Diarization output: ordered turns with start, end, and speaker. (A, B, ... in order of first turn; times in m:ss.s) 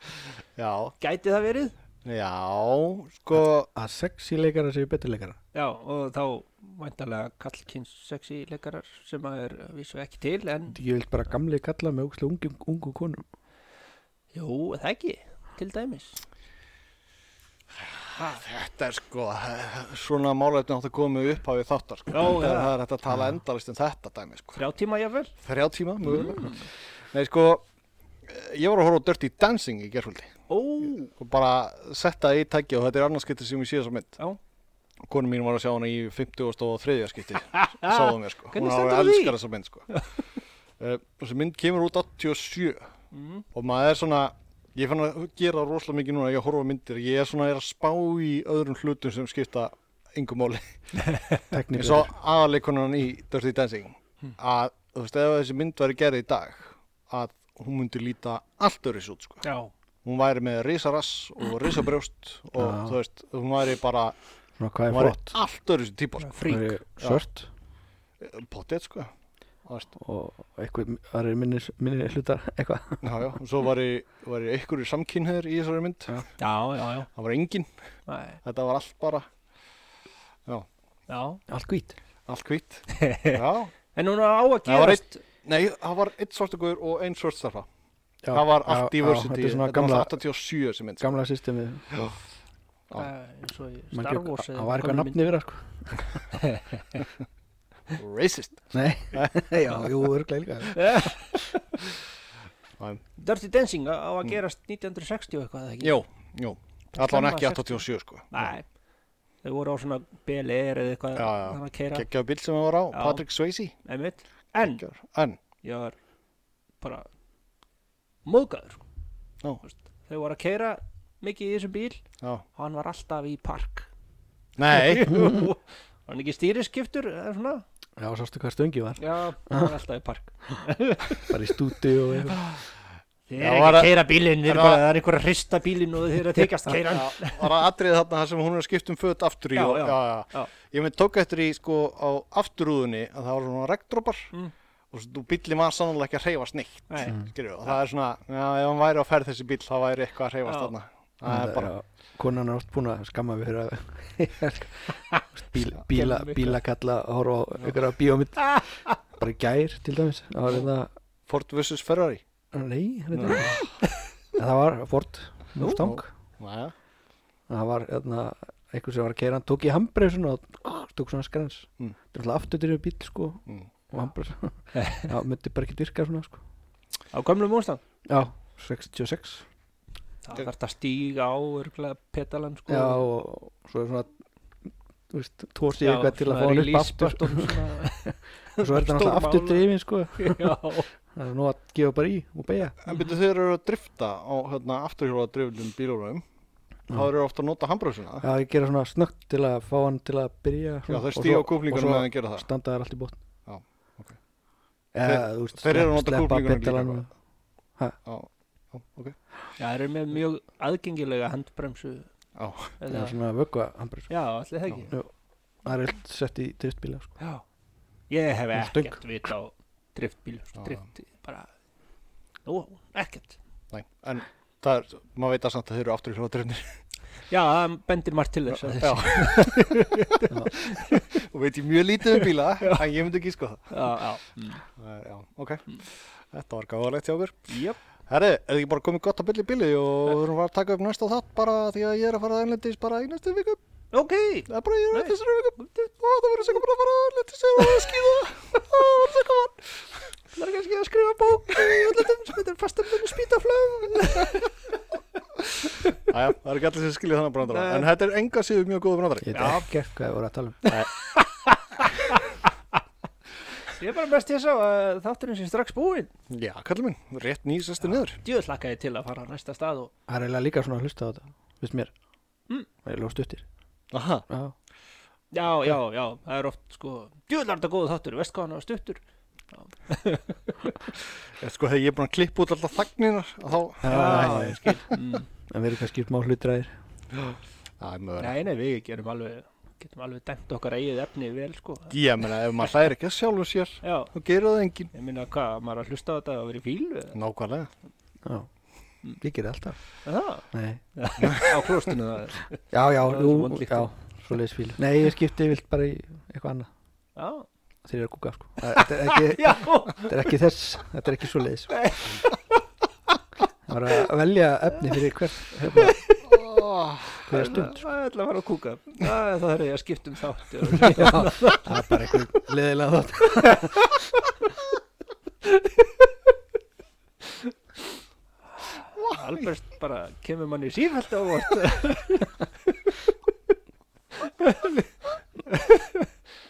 0:00.6-0:01.0 A
0:01.0-0:01.8 B
0:02.0-0:03.7 A
0:03.8-0:05.4 C
0:05.5-0:10.8 B
0:10.7-0:13.2 C
0:14.3-0:16.2 B
0:18.1-0:24.6 A
0:22.1-0:22.8 B
0:24.6-0:25.3 B
0:25.4-0:27.6 A
0:26.0-0:26.7 B
0:28.3-0:30.3 A
0:30.5-0:31.1 B
0:31.1-0:34.2 A
0:35.0-0:39.9 A
0:37.5-0:39.4 B
0:40.8-0:42.9 A
0:43.1-0:43.4 B
0:43.5-0:51.2 A
0:51.0-0:51.3 B
0:51.5-0:52.1 C
0:51.7-0:59.4 A
0:59.4-0:59.7 B
1:00.0-1:04.2 A
1:02.6-1:03.0 C
1:04.6-1:05.4 C
1:04.9-1:06.5 A
1:06.2-1:06.8 B
1:06.5-1:07.5 C
1:08.2-1:09.1 A
1:10.0-1:13.2 C
1:13.0-1:16.3 A
1:16.4-1:17.1 B
1:17.2-1:17.7 A
1:18.1-1:18.4 B
1:18.4-1:19.3 A
1:21.1-1:21.4 B
1:21.5-1:22.0 C
1:22.3-1:23.7 A
1:22.9-1:23.4 B
1:23.9-1:25.2 B
1:24.7-1:27.7 A
1:28.2-1:30.2 C
1:28.3-1:31.2 A
1:31.0-1:32.0 C
1:32.9-1:35.3 B
1:33.9-1:36.1 C
1:36.3-1:37.0 B
1:38.0-1:39.4 A
1:38.7-1:41.4 C
1:40.7-1:41.8 B
1:43.2-1:46.0 B
1:45.8-1:48.5 A
1:46.9-1:48.7 B
1:49.4-1:52.1 B
1:51.2-1:53.7 A
1:52.9-1:53.2 B
1:53.8-1:54.8 B
1:54.6-1:55.4 A
1:55.6-1:56.0 B
1:56.8-1:57.1 B
1:58.2-1:58.8 B
1:59.6-2:02.0 B
2:02.6-2:03.9 B
2:04.6-2:05.2 A
2:04.7-2:07.6 B
2:08.0-2:09.7 C
2:09.0-2:11.6 B
2:11.2-2:12.4 C
2:12.3-2:12.6 B
2:13.3-2:17.6 B
2:13.4-2:14.8 A
2:16.8-2:24.3 A
2:19.6-2:20.5 B
2:24.9-2:31.7 A
2:26.9-2:27.2 B
2:30.4-2:30.7 B
2:31.2-2:40.9 C
2:35.9-2:36.6 B
2:38.4-2:39.0 B
2:41.3-2:42.2 A
2:42.5-2:43.6 C
2:43.1-2:43.7 A
2:44.3-2:46.1 C
2:45.6-2:45.8 B
2:45.8-2:46.7 A
2:47.5-2:56.4 C
2:57.1-2:57.8 B
2:58.1-2:59.4 C
3:00.2-3:03.0 B
3:02.7-3:04.2 C
3:05.1-3:10.6 C
3:05.8-3:10.9 B
3:11.1-3:12.8 C
3:12.8-3:16.2 A
3:16.9-3:18.3 A
3:18.2-3:23.2 C
3:20.9-3:22.5 A
3:23.5-3:24.2 A
3:24.9-3:27.1 C
3:25.0-3:27.0 A
3:28.0-3:29.2 A
3:29.6-3:32.1 B
3:32.4-3:32.8 A
3:32.8-3:33.2 B
3:32.9-3:34.1 C
3:34.1-3:34.9 B
3:35.6-3:37.2 C
3:38.1-3:41.5 B
3:38.5-3:39.0 C
3:42.4-3:43.4 B
3:43.7-3:46.8 A
3:47.3-3:51.1 B
3:48.5-3:53.8 A
3:52.2-3:52.8 B
3:53.7-3:54.6 B
3:54.8-3:57.5 A
3:57.5-3:57.8 B
3:58.1-4:03.6 A
4:03.9-4:05.9 B
4:04.5-4:09.7 A
4:07.6-4:07.9 B
4:10.3-4:14.5 B
4:15.9-4:19.6 A
4:17.4-4:17.9 B
4:19.2-4:20.7 C
4:19.3-4:19.7 B
4:21.2-4:22.3 B
4:23.6-4:26.1 B
4:26.3-4:28.2 A
4:27.9-4:29.9 B
4:30.1-4:31.9 C
4:32.8-4:33.4 C
4:33.9-4:34.3 A
4:34.3-4:34.5 C
4:35.3-4:39.0 B
4:39.5-4:40.8 B
4:41.4-4:45.0 A
4:43.8-4:44.6 C
4:43.9-4:45.3 B
4:45.5-4:46.8 C
4:47.2-4:48.3 A
4:48.2-4:52.3 B
4:51.9-4:54.9 A
4:53.8-4:54.1 B
4:54.9-4:57.2 B
4:57.2-4:57.7 A
4:58.2-4:58.5 C
4:59.2-4:59.8 C
5:00.0-5:03.9 B
5:00.5-5:00.8 C
5:01.2-5:01.5 A
5:02.7-5:06.7 C
5:07.2-5:07.5 B
5:07.8-5:11.8 C
5:08.7-5:10.3 B
5:11.7-5:12.6 B
5:13.7-5:16.0 C
5:15.7-5:16.4 B
5:16.3-5:17.2 A
5:17.2-5:17.9 C
5:17.3-5:21.8 B
5:20.9-5:24.0 C
5:28.6-5:33.1 B
5:34.2-5:34.9 B
5:35.5-5:36.1 B